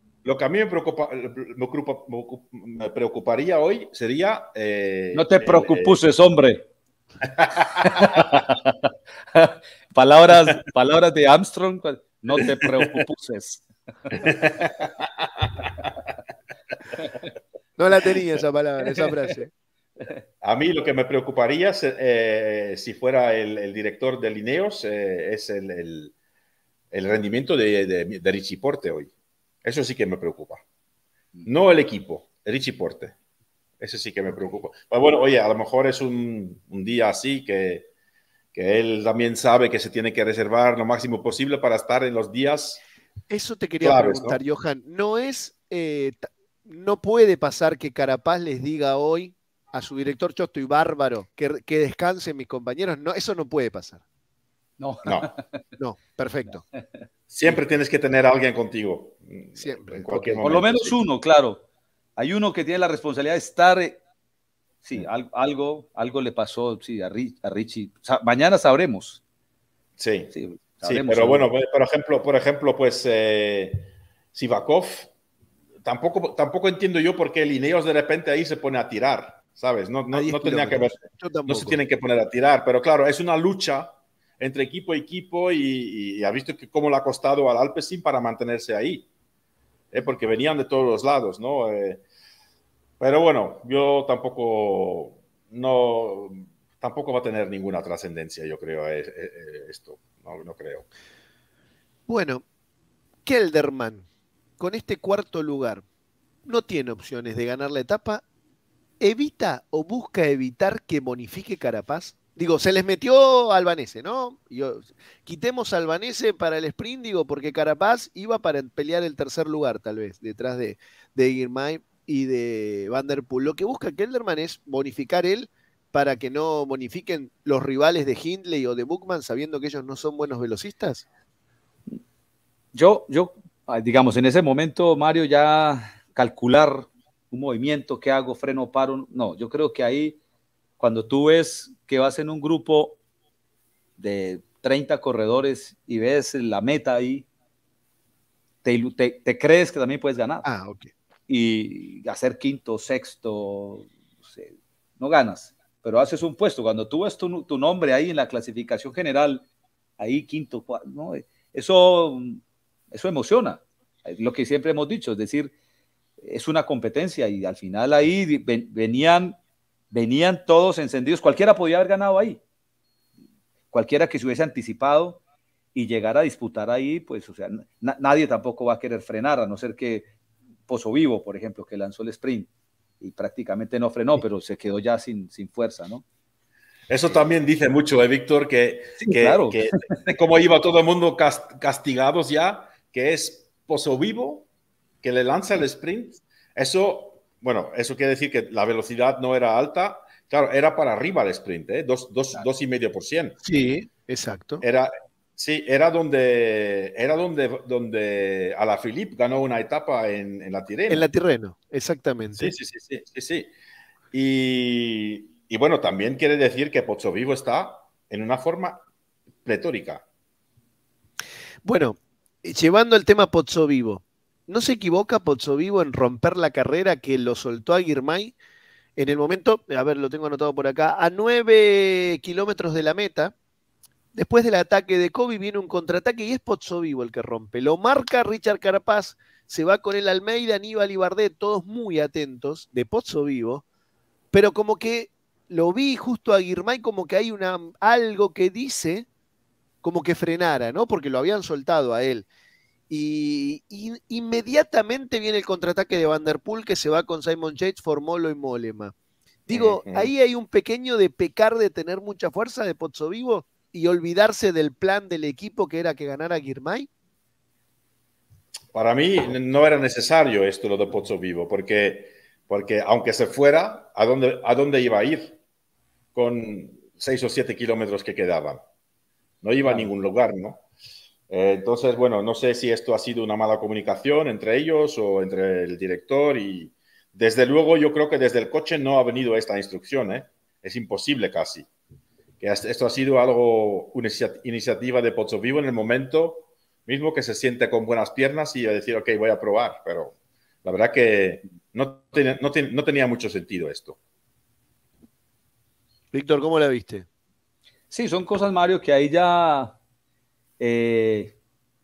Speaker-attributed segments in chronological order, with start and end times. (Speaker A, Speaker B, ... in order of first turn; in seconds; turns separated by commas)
Speaker A: 0.2-6.0, Speaker B: 5.1-6.7, Speaker A: 7.3-8.3, Speaker B: 7.7-14.3, Speaker A: 12.6-12.9, Speaker A: 14.1-15.9, Speaker C: 17.8-19.5, Speaker A: 20.4-26.1, Speaker A: 26.9-29.1, Speaker A: 29.6-30.6, Speaker A: 31.4-33.1, Speaker A: 33.8-37.9, Speaker A: 38.5-42.8, Speaker C: 43.3-54.0, Speaker A: 43.8-44.4, Speaker B: 54.8-55.6, Speaker A: 55.0-55.3, Speaker C: 55.8-56.6, Speaker B: 56.7-57.0, Speaker A: 57.3-61.0, Speaker C: 59.6-60.5, Speaker B: 60.4-61.6, Speaker B: 62.2-64.0, Speaker B: 64.8-69.2, Speaker A: 70.0-75.1, Speaker B: 70.3-71.5, Speaker A: 75.8-89.1, Speaker C: 80.1-81.8, Speaker A: 89.9-92.0, Speaker A: 93.0-100.8, Speaker C: 102.1-102.4, Speaker C: 103.2-104.0, Speaker C: 104.6-105.8, Speaker C: 106.5-108.2, Speaker C: 109.0-131.1, Speaker B: 132.7-140.2, Speaker B: 140.8-143.0, Speaker B: 144.0-147.3, Speaker B: 148.6-150.4, Speaker C: 150.4-150.9, Speaker B: 151.3-159.4, Speaker B: 160.0-165.5, Speaker B: 166.2-169.4, Speaker B: 169.9-172.4, Speaker B: 173.7-175.2, Speaker B: 175.7-180.1, Speaker B: 180.7-182.5, Speaker B: 183.0-186.0, Speaker A: 186.9-194.5, Speaker B: 189.0-189.8, Speaker A: 195.0-203.4, Speaker C: 203.4-204.6, Speaker A: 204.6-211.1, Speaker C: 210.9-212.5, Speaker A: 212.4-213.5, Speaker A: 214.1-218.8, Speaker A: 219.4-220.0, Speaker C: 221.6-228.3, Speaker C: 229.0-233.3, Speaker C: 234.1-243.6, Speaker C: 244.3-249.1, Speaker C: 249.8-252.3, Speaker C: 252.9-258.9, Speaker C: 259.5-266.9, Speaker A: 259.5-260.1, Speaker A: 268.7-275.4, Speaker A: 276.1-278.6, Speaker A: 279.4-280.6, Speaker A: 281.3-291.7, Speaker A: 292.4-304.0, Speaker C: 306.1-307.1, Speaker B: 307.9-309.8, Speaker B: 310.6-311.4